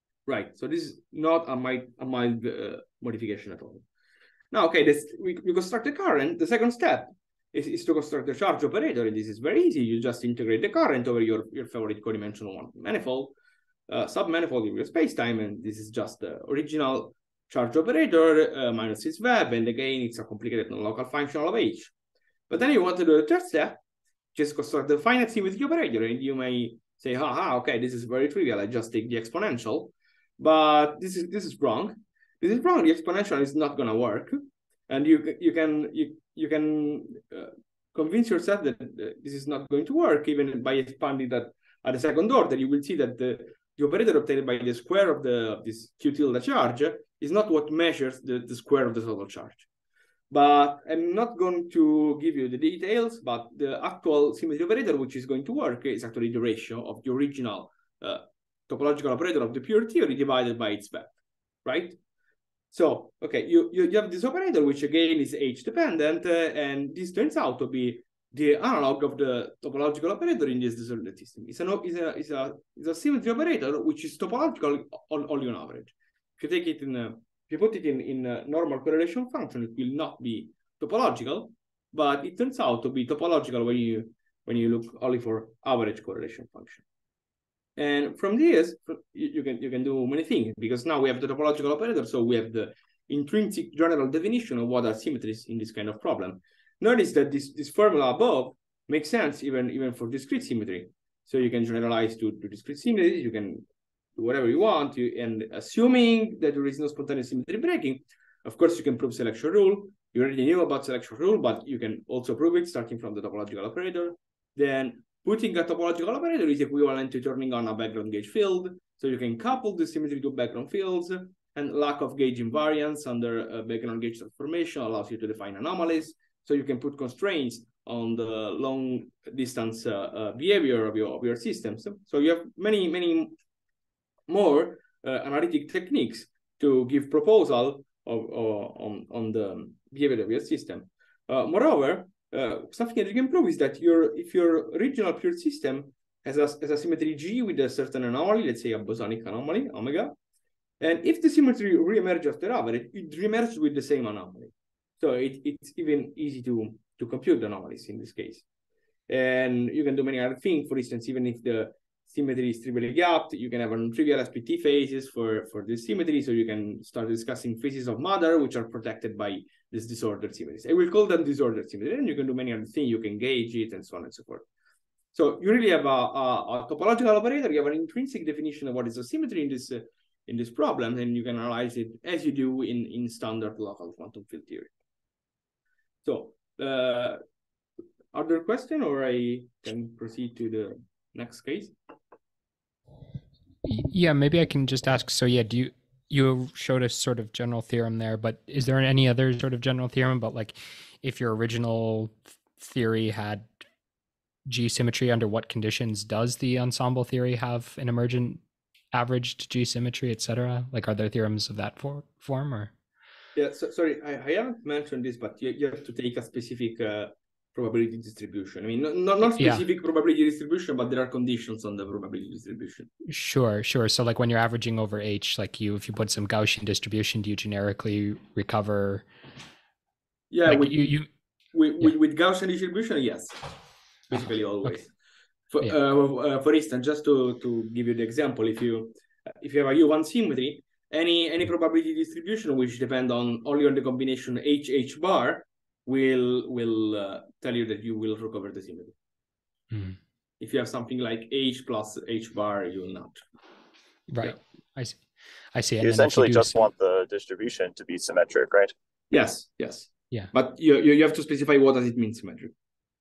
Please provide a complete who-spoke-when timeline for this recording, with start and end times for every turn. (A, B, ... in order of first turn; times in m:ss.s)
0:00.3-0:03.8 A
0:04.5-0:13.4 A
0:13.9-0:21.9 A
0:22.5-0:23.8 A
0:24.3-0:49.7 A
0:50.3-1:02.0 A
1:02.7-1:26.8 A
1:27.8-2:13.3 A
2:14.3-2:30.1 A
2:30.8-2:38.4 A
2:39.1-2:54.5 A
2:55.1-3:04.7 A
3:06.0-3:07.2 A
3:08.1-3:11.8 A
3:13.6-3:23.5 B
3:24.5-3:28.4 B
3:28.9-3:32.7 B
3:33.4-3:42.9 A
3:39.4-3:39.6 B
3:43.1-3:49.1 B
3:50.3-3:50.9 A
3:50.4-3:51.1 B
3:51.5-3:53.4 A
3:54.1-3:54.9 A
3:54.1-3:54.7 B
3:55.5-4:09.0 A
4:09.7-4:10.0 B
4:10.4-4:13.2 A
4:14.1-4:16.6 B
4:15.8-4:18.7 C
4:19.1-4:22.5 A